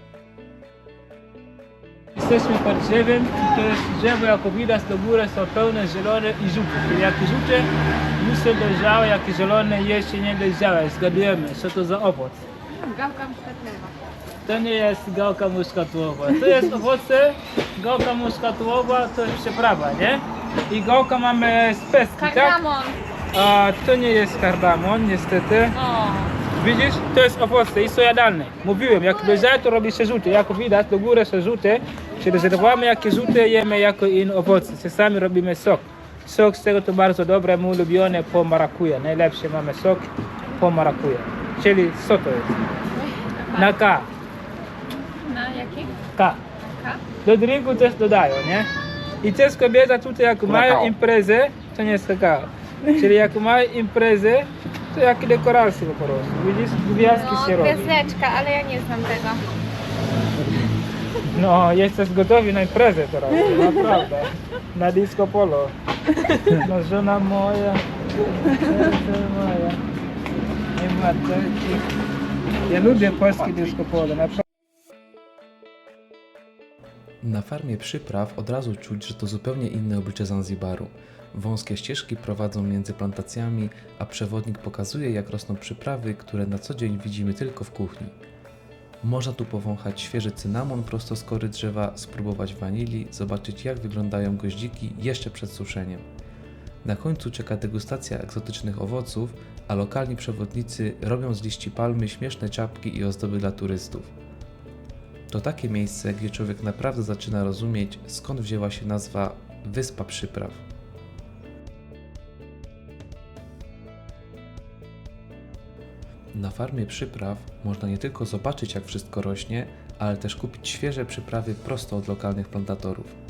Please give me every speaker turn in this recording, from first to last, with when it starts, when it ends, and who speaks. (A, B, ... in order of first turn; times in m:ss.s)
0:02.2-0:12.4 A
0:12.7-0:14.0 B
0:14.5-0:22.6 A
0:22.2-0:23.0 B
0:23.3-0:25.7 A
0:25.7-0:26.4 B
0:26.5-0:42.7 A
0:43.2-0:43.8 B
0:43.6-0:44.1 A
0:45.2-0:46.1 B
0:46.6-0:47.1 B
0:47.2-0:48.7 A
0:49.2-0:57.9 A
0:57.0-0:59.4 B
1:01.3-1:05.8 A
1:06.5-1:07.8 A
1:08.4-1:09.8 A
1:10.8-1:11.9 A
1:12.7-1:14.4 A
1:17.2-1:28.2 C
1:29.0-1:36.1 C
1:36.8-1:44.1 C
1:45.3-1:50.6 C
1:56.3-2:03.2 C